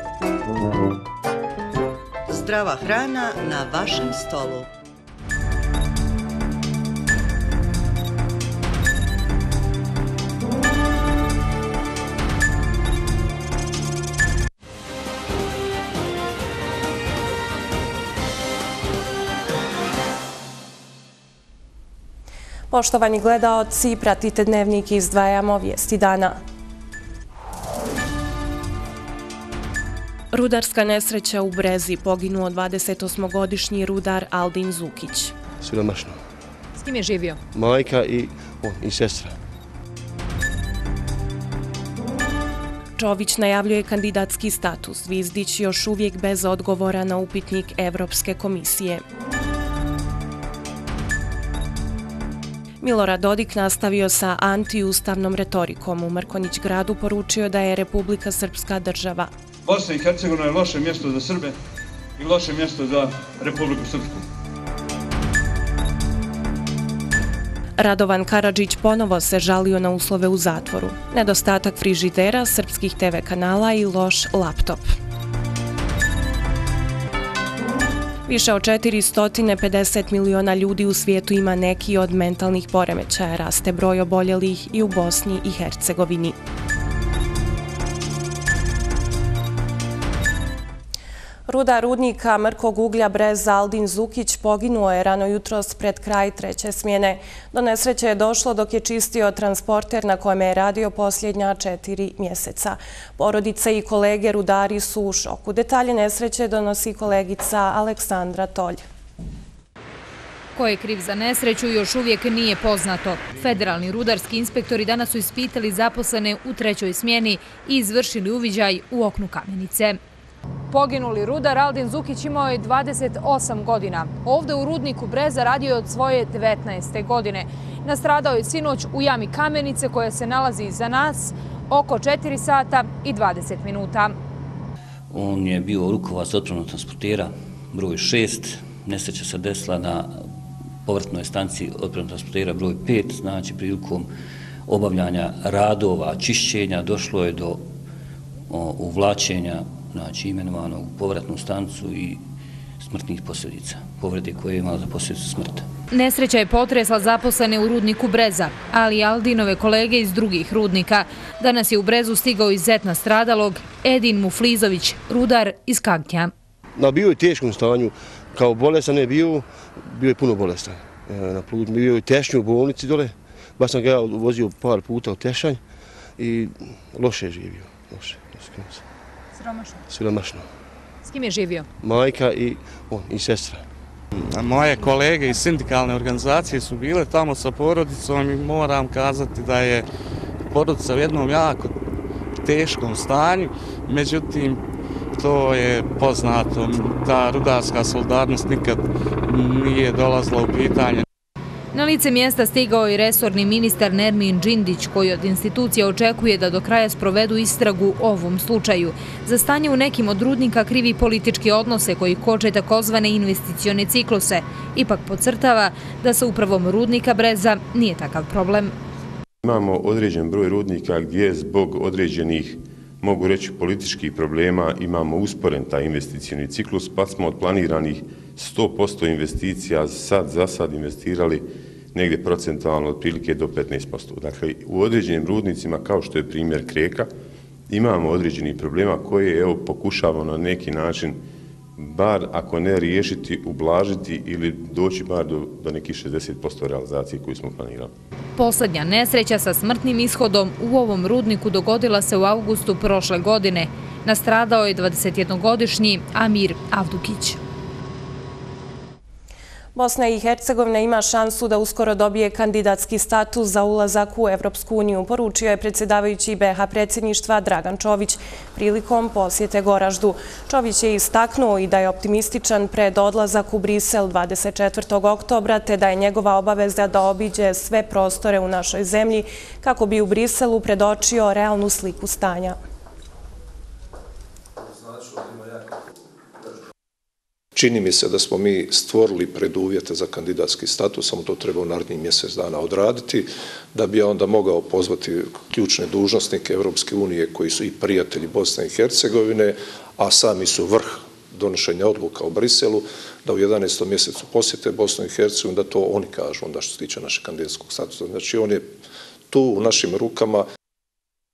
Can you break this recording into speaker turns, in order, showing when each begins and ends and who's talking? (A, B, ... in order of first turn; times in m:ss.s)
0:02.3-0:04.7 A
0:22.7-0:26.4 B
0:30.3-0:35.3 B
0:35.6-0:36.2 C
0:36.8-0:37.4 D
0:37.5-0:39.4 C
0:43.0-0:49.0 B
0:52.8-0:59.3 B
0:59.6-1:01.6 E
1:02.2-1:04.2 E
1:07.8-1:14.9 B
1:18.3-1:26.4 B
1:31.5-1:48.8 B
1:50.6-2:00.0 D
2:00.7-2:14.2 D
2:15.1-2:20.2 F
2:20.9-2:24.1 F
2:24.7-2:27.6 F
2:28.5-2:32.2 F
2:32.8-2:35.7 F
2:35.9-2:46.3 D
2:46.8-2:55.6 C
2:56.2-2:58.8 C
2:59.4-2:59.8 D
2:59.9-3:00.5 C
3:01.0-3:01.7 D
3:01.8-3:03.6 C
3:04.3-3:09.9 G
3:10.5-3:11.8 G
3:12.4-3:14.6 G
3:15.2-3:21.0 G
3:21.7-3:38.8 D
3:39.4-3:57.1 H
3:57.7-4:01.2 H
4:01.8-4:07.9 H
4:08.4-4:17.4 D
4:19.8-4:42.6 B
4:47.6-5:08.7 I
5:09.3-5:10.5 I